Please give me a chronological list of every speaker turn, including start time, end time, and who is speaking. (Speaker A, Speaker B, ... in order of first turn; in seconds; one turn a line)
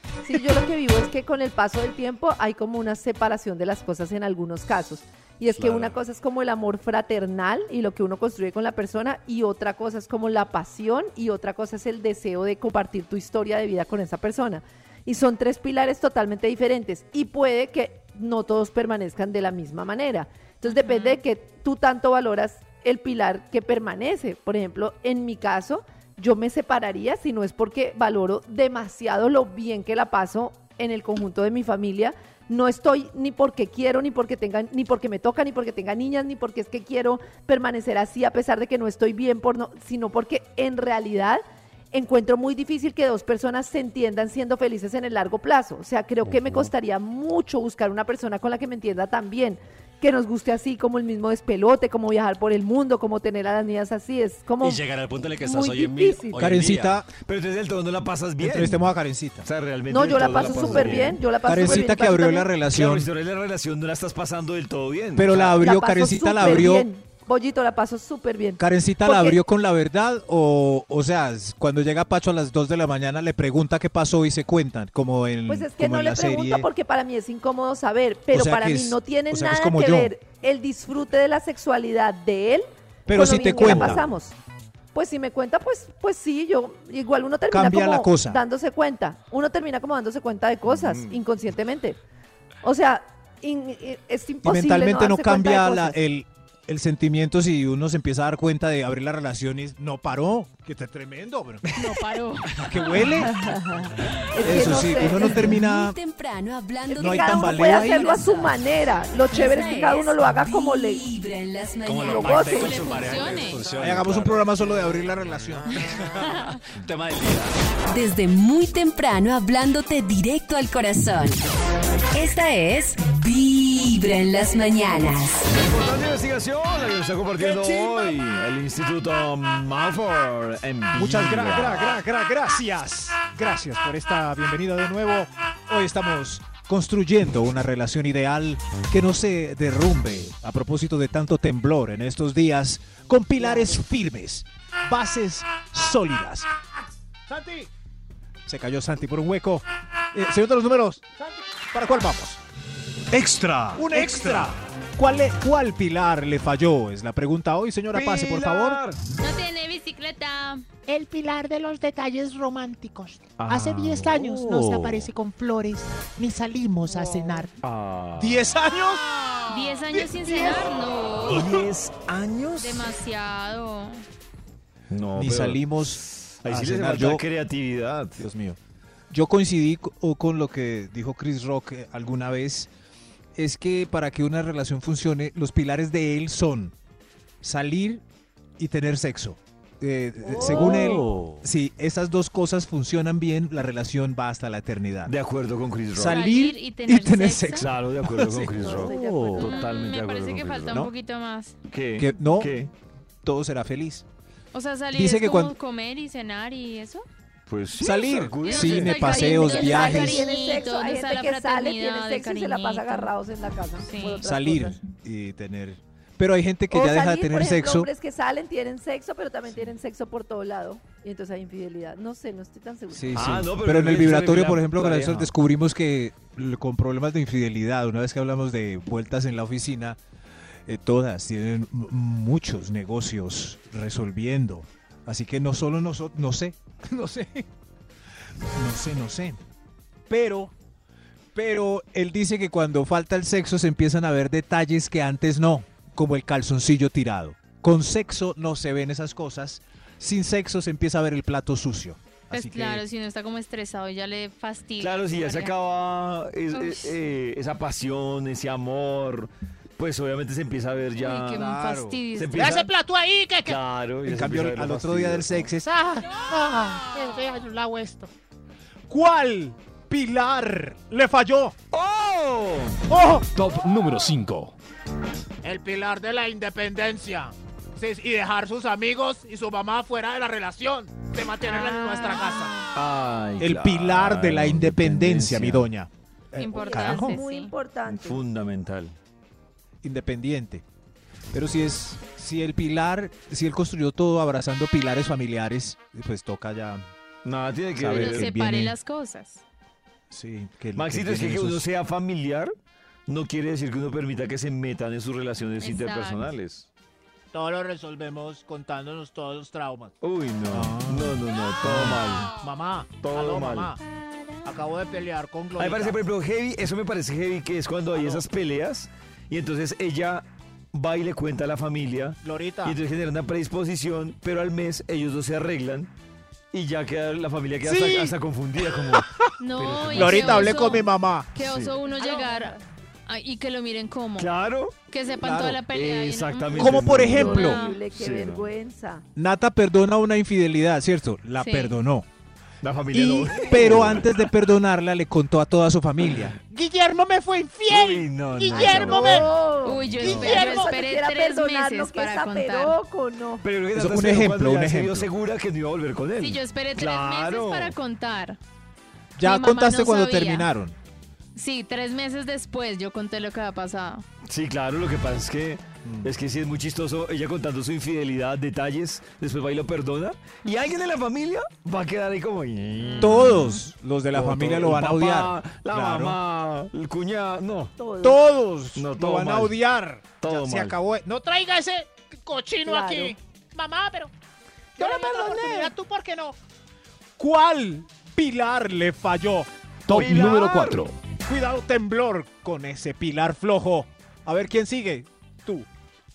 Speaker A: 0.2-54.8
Speaker B: 20.6-21.2
Speaker C: 46.3-46.7
Speaker C: 54.6-57.0
Speaker A: 55.4-56.4
Speaker D: 56.4-57.1
Speaker E: 57.2-58.9
Speaker D: 58.4-59.5
Speaker E: 59.4-61.9
Speaker A: 59.9-62.5
Speaker D: 60.4-63.1
Speaker E: 62.7-65.6
Speaker D: 65.1-66.9
Speaker A: 65.6-69.4
Speaker D: 68.6-76.7
Speaker A: 75.5-84.3
Speaker D: 78.3-80.1
Speaker D: 83.0-84.1
Speaker E: 83.6-83.9
Speaker A: 84.9-92.0
Speaker D: 87.5-88.4
Speaker E: 90.8-91.2
Speaker A: 92.6-96.0
Speaker D: 94.4-101.9
Speaker B: 101.7-102.6
Speaker D: 102.6-103.3
Speaker A: 103.4-105.5
Speaker D: 104.4-106.0
Speaker F: 104.5-108.6
Speaker A: 106.9-111.0
Speaker D: 107.0-108.1
Speaker F: 109.3-112.8
Speaker C: 111.8-114.4
Speaker A: 112.0-112.7
Speaker B: 112.5-113.6
Speaker D: 113.8-115.8
Speaker C: 115.7-117.5
Speaker B: 116.3-116.6
Speaker F: 117.9-121.4
Speaker F: 122.1-125.5
Speaker E: 125.5-132.0
Speaker D: 127.5-127.9
Speaker D: 130.9-146.5
Speaker D: 147.3-147.7
Speaker D: 148.4-151.1
Speaker D: 151.7-152.4
Speaker G: 153.1-154.5
Speaker D: 153.7-158.8
Speaker E: 157.9-159.0
Speaker B: 159.2-160.6
Speaker H: 160.9-167.5
Speaker E: 163.4-165.1
Speaker E: 166.9-168.5
Speaker D: 168.2-169.0
Speaker B: 169.5-171.6
Speaker E: 171.2-172.8
Speaker B: 172.6-174.0
Speaker E: 174.9-178.2
Speaker D: 175.1-177.2
Speaker D: 178.2-178.6
Speaker D: 179.1-182.7
Speaker D: 183.3-186.7
Speaker D: 187.4-188.0
Speaker D: 188.6-195.1
Speaker A: 190.2-191.1
Speaker E: 190.4-191.1
Speaker E: 195.1-196.2
Speaker D: 195.9-199.5
Speaker B: 196.0-197.7
Speaker E: 197.6-200.9
Speaker A: 198.5-199.6
Speaker B: 199.4-201.5
Speaker E: 201.7-202.7
Speaker D: 201.9-202.6
Speaker D: 203.2-204.0
Speaker B: 204.5-207.0
Speaker D: 204.9-205.5
Speaker E: 207.5-209.2
Speaker D: 207.8-210.3
Speaker B: 208.4-213.1
Speaker A: 209.0-214.8
Speaker B: 213.8-214.2
Speaker D: 214.2-217.9
Speaker A: 216.7-223.2
Speaker D: 222.9-230.0
Speaker E: 223.1-225.3
Speaker D: 230.7-237.5
Speaker D: 238.5-239.4
Speaker D: 240.1-240.5
Speaker D: 241.3-252.8
Speaker B: 252.3-255.5
Speaker E: 254.8-261.6
Speaker B: 256.5-256.9
Speaker B: 261.0-262.6
Speaker D: 261.4-262.0
Speaker E: 262.1-262.7
Speaker H: 262.3-263.6
Speaker E: 263.4-265.5
Speaker D: 264.0-265.7
Speaker H: 265.6-268.1
Speaker D: 268.9-271.5
Speaker E: 271.7-272.8
Speaker H: 272.9-273.2
Speaker G: 273.3-274.6
Speaker H: 275.4-282.6
Speaker B: 281.4-282.7
Speaker E: 282.7-285.6
Speaker D: 283.4-287.2
Speaker B: 286.4-287.5
Speaker A: 286.5-288.2
Speaker E: 287.9-288.9
Speaker D: 289.8-290.6
Speaker D: 291.3-296.9
Speaker E: 297.2-298.3
Speaker D: 297.8-298.8
Speaker B: 297.9-299.4
Speaker D: 300.1-301.6
Speaker E: 300.7-302.5
Speaker E: 303.1-306.7
Speaker B: 305.6-306.3
Speaker H: 307.3-309.9
Speaker E: 310.0-312.3
Speaker D: 310.5-312.0
Speaker H: 312.4-313.8
Speaker E: 313.0-313.7
Speaker B: 313.8-314.5
Speaker H: 314.4-316.0
Speaker E: 315.6-325.9
Speaker H: 317.9-318.2
Speaker H: 322.2-322.8
Speaker E: 326.5-330.8
Speaker D: 327.7-328.1
Speaker H: 327.8-328.0
Speaker B: 329.4-332.5
Speaker D: 329.9-331.3
Speaker E: 331.4-331.8
Speaker H: 332.1-332.4
Speaker A: 332.2-332.4
Speaker B: 333.1-334.3
Speaker E: 334.2-334.7
Speaker B: 334.9-337.8
Speaker D: 335.1-335.6
Speaker E: 335.7-338.5
Speaker D: 336.5-337.6
Speaker A: 337.1-339.0
Speaker D: 339.1-342.1
Speaker B: 341.4-341.8
Speaker E: 342.6-344.2
Speaker D: 342.9-346.4
Speaker H: 346.5-349.3
Speaker E: 347.7-350.3
Speaker A: 348.5-353.4
Speaker B: 349.6-352.8
Speaker H: 350.0-350.7
Speaker E: 353.4-357.8
Speaker D: 353.7-355.1
Speaker B: 356.2-358.4
Speaker D: 359.1-360.8
Speaker B: 359.2-360.5
Speaker B: 361.3-364.0
Speaker E: 364.2-373.6
Speaker D: 365.8-366.1
Speaker D: 373.0-376.2
Speaker E: 374.1-377.7
Speaker A: 377.8-378.2
Speaker D: 378.0-381.0
Speaker E: 378.7-379.6
Speaker E: 380.2-380.8
Speaker H: 381.0-384.1
Speaker A: 382.6-383.1
Speaker H: 384.8-386.4
Speaker D: 384.8-385.4
Speaker D: 387.2-390.6
Speaker G: 389.9-390.9
Speaker E: 389.9-390.8
Speaker D: 391.2-395.7